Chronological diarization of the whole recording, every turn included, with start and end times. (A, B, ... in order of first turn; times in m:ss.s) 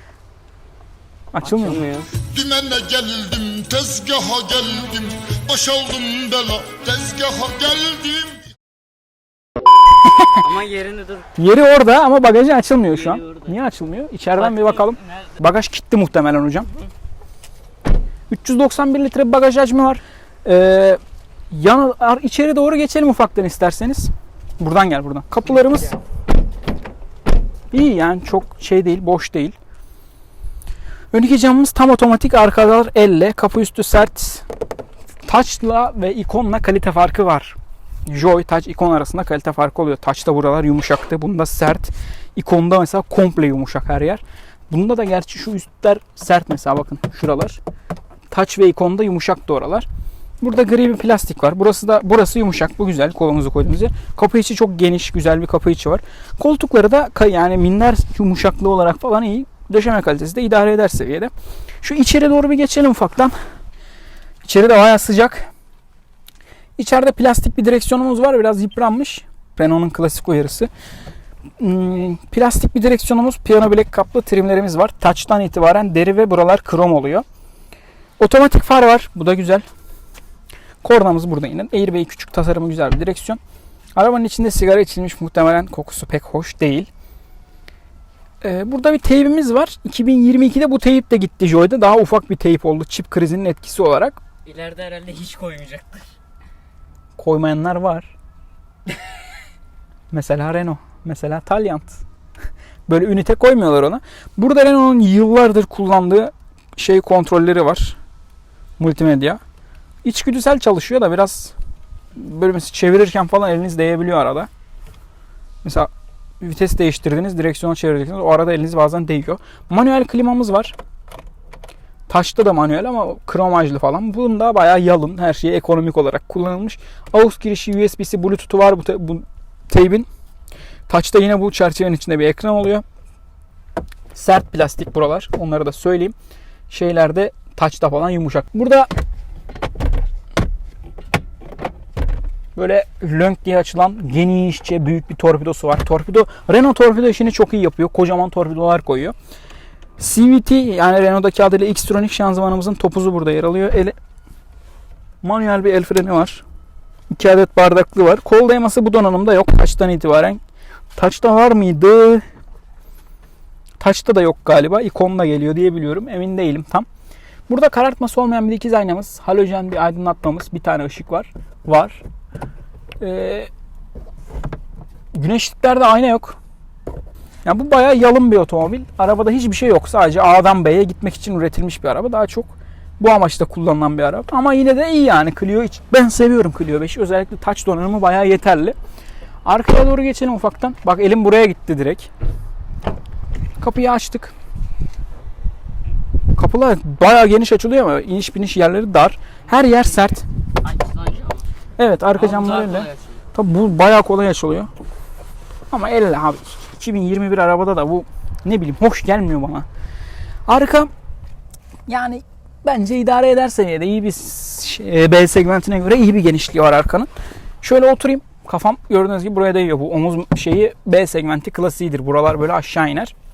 0:01.3-0:01.8 A
0:01.4-0:02.2 B
0:02.2-0:08.5 C
0:10.0-0:10.4 A
0:10.4-0:11.3 B
0:11.4-0:16.7 A
0:12.9-0:13.6 B
0:14.4-0:15.0 B
0:18.3-0:21.0 A
0:21.5-0:26.0 A
0:27.7-0:29.6 A
0:31.1-0:34.4 A
0:35.3-0:37.6 A
0:38.1-0:47.6 A
0:48.3-0:49.9 A
0:50.4-1:01.3 A
1:01.8-1:03.3 A
1:04.4-1:05.5 A
1:06.8-1:10.7 A
1:11.6-1:17.2 A
1:18.2-1:19.6 A
1:20.8-1:23.4 A
1:24.0-1:26.9 A
1:28.4-1:34.2 A
1:34.5-1:36.1 B
1:37.2-1:38.1 A
1:40.1-1:42.0 A
1:42.9-1:48.0 A
1:48.8-1:49.4 A
1:50.0-1:51.6 A
1:52.2-1:54.5 A
1:55.6-1:55.9 A
1:56.4-2:00.8 A
2:02.1-2:10.1 A
2:10.9-2:12.8 A
2:14.1-2:16.1 A
2:16.7-2:18.9 A
2:22.6-2:29.2 A
2:30.0-2:34.0 A
2:35.2-2:36.4 A
2:37.1-2:40.4 A
2:41.0-2:42.2 A
2:43.8-2:46.9 A
2:47.5-2:52.0 A
2:53.0-2:53.5 A
2:55.1-2:56.4 A
2:57.4-3:08.8 A
3:09.4-3:12.1 A
3:13.6-3:14.3 A
3:16.3-3:20.2 A
3:20.6-3:21.4 B
3:21.8-3:24.7 A
3:22.2-3:23.1 B
3:25.7-3:29.7 A
3:30.5-3:30.9 A
3:31.9-3:37.1 A
3:37.6-3:43.1 A